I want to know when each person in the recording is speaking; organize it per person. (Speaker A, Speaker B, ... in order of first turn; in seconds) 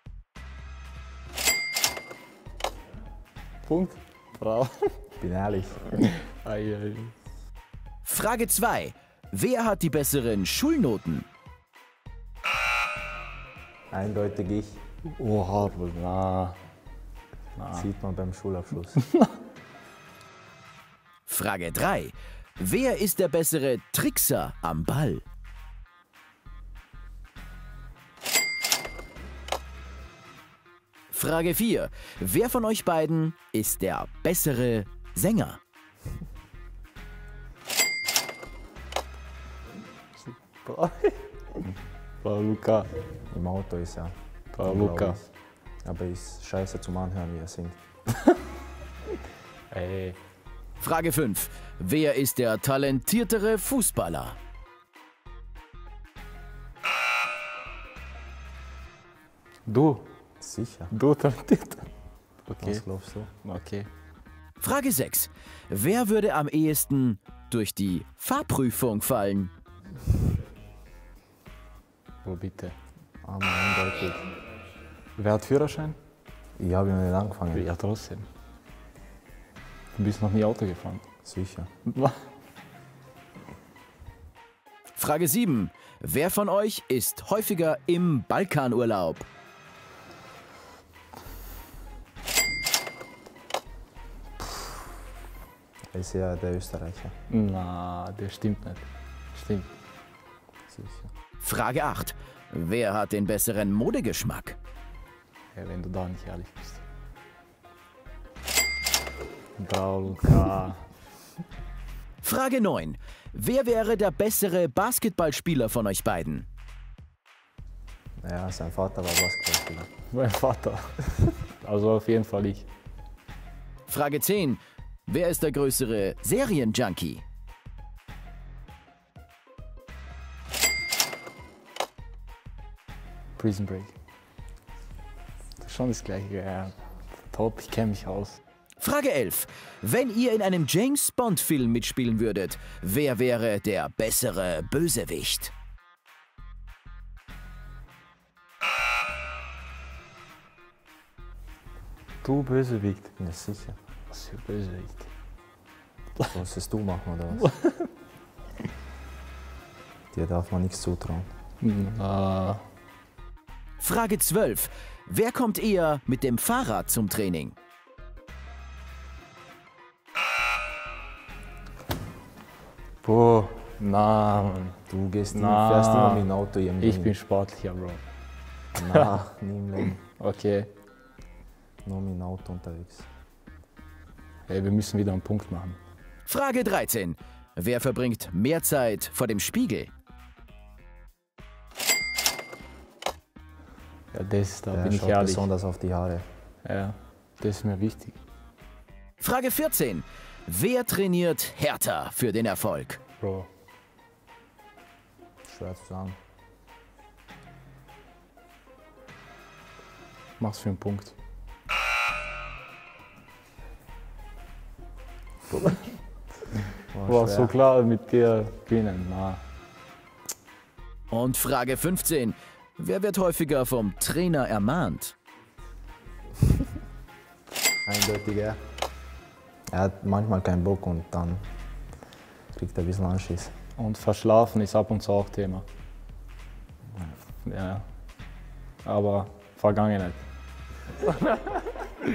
Speaker A: 3.6-5.0, 6.2-7.1, 15.0-16.6, 17.6-17.9, 40.5-41.6, 42.2-42.9, 44.5-45.2, 49.7-50.2, 59.6-60.1, 60.9-61.9, 62.5-62.8, 63.4-63.9, 72.2-72.7, 75.2-76.0, 77.5-78.3, 79.9-81.0, 81.9-82.2, 97.3-99.7, 105.5-106.8, 109.6-110.8, 120.1-122.7, 133.4-133.9, 135.6-138.4, 152.2-153.1, 154.1-155.1, 157.4-157.8, 161.6-162.6, 173.0-174.8, 175.3-176.3, 176.8-178.0, 180.2-180.7, 184.5-185.8, 194.1-195.5, 196.6-198.2, 203.2-203.5, 210.4-211.1, 215.5-215.8, 217.0-219.4, 233.8-235.7, 237.4-237.8, 238.8-240.2, 241.3-241.6
Speaker B: 5.2-5.9, 13.9-14.8, 17.7-19.0, 43.3-45.3, 45.8-47.8, 60.4-60.9, 62.6-63.3, 73.2-74.3, 76.6-77.7, 81.2-81.7, 95.9-97.1, 100.7-101.1, 118.2-119.9, 153.2-153.8, 156.3-157.5, 160.1-161.3, 174.9-177.1, 178.7-180.0, 181.8-183.1, 194.7-196.2, 205.4-206.2, 216.9-217.5, 227.8-228.6, 229.7-231.4, 232.5-233.5
Speaker C: 8.0-11.3, 21.3-25.2, 31.1-35.6, 50.8-54.4, 64.6-69.5, 85.0-89.2, 101.4-104.6, 112.2-116.5, 123.9-127.2, 138.8-145.5, 163.8-167.5, 186.3-189.9, 199.2-203.0, 221.1-225.1